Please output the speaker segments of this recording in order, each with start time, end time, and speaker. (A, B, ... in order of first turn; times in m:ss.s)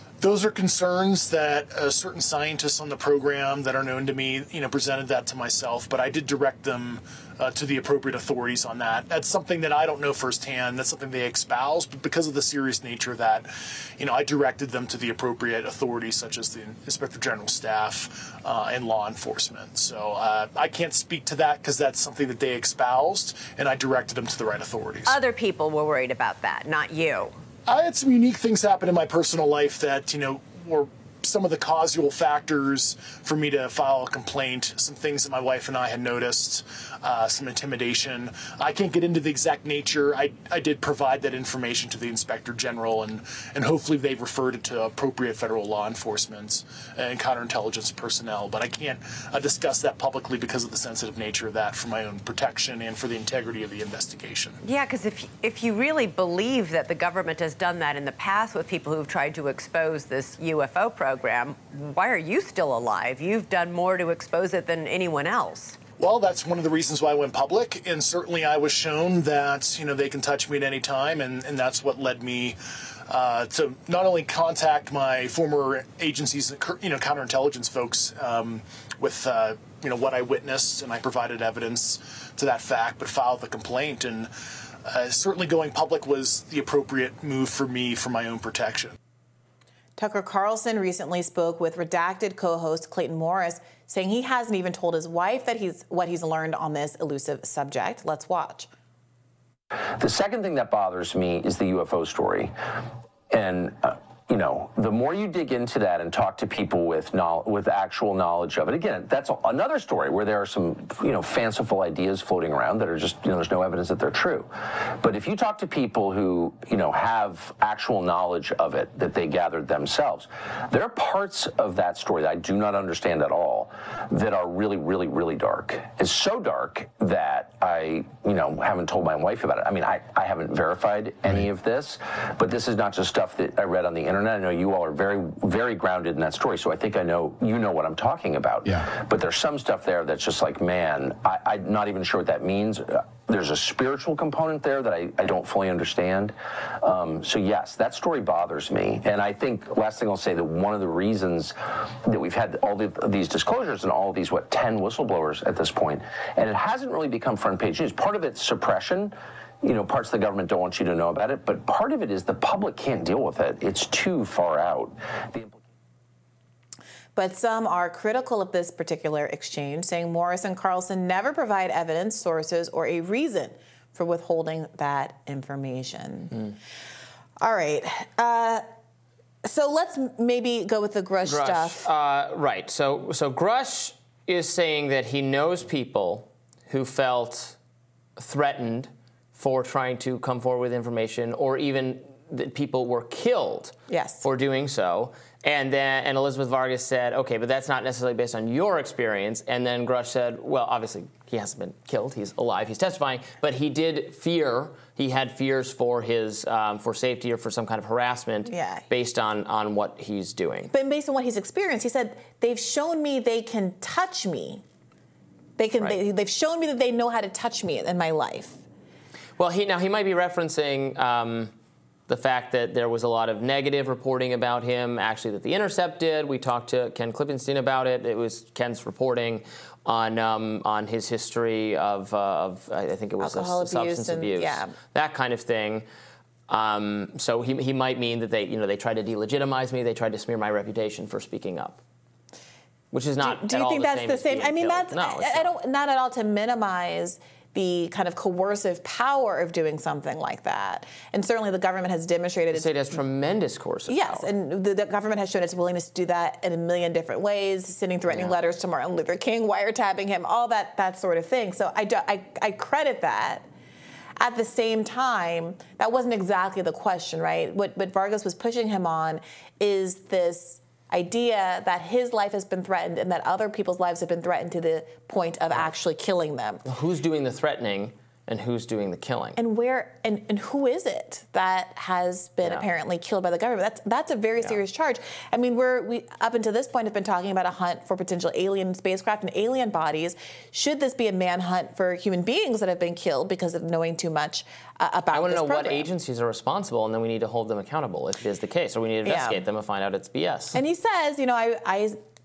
0:00.2-0:25.1 A
0:25.1-0:27.4 B
0:27.7-0:54.6 A
0:54.6-1:05.8 B
1:06.0-1:12.6 A
1:13.1-1:24.3 A
1:24.8-1:28.9 A
1:30.0-1:38.7 C
1:40.0-1:42.6 D
1:43.3-2:45.6 D
2:47.2-2:56.3 C
2:57.4-2:58.6 C
2:59.4-3:01.8 C
3:01.2-3:07.6 E
3:08.2-3:30.7 E
3:13.9-3:14.3 C
3:28.5-3:28.8 C
3:30.7-3:34.6 C
3:35.6-3:38.6 C
3:39.4-3:41.5 E
3:42.1-3:55.8 E
3:53.2-3:54.7 C
3:56.5-4:01.8 E
4:02.9-4:05.5 E
4:03.2-4:12.7 C
4:12.5-4:14.3 E
4:13.9-4:23.4 C
4:18.1-4:18.4 E
4:24.2-4:36.6 C
4:36.7-4:39.4 E
4:39.4-4:55.8 C
4:55.1-5:00.6 E
4:59.0-4:59.4 C
5:00.5-5:02.0 C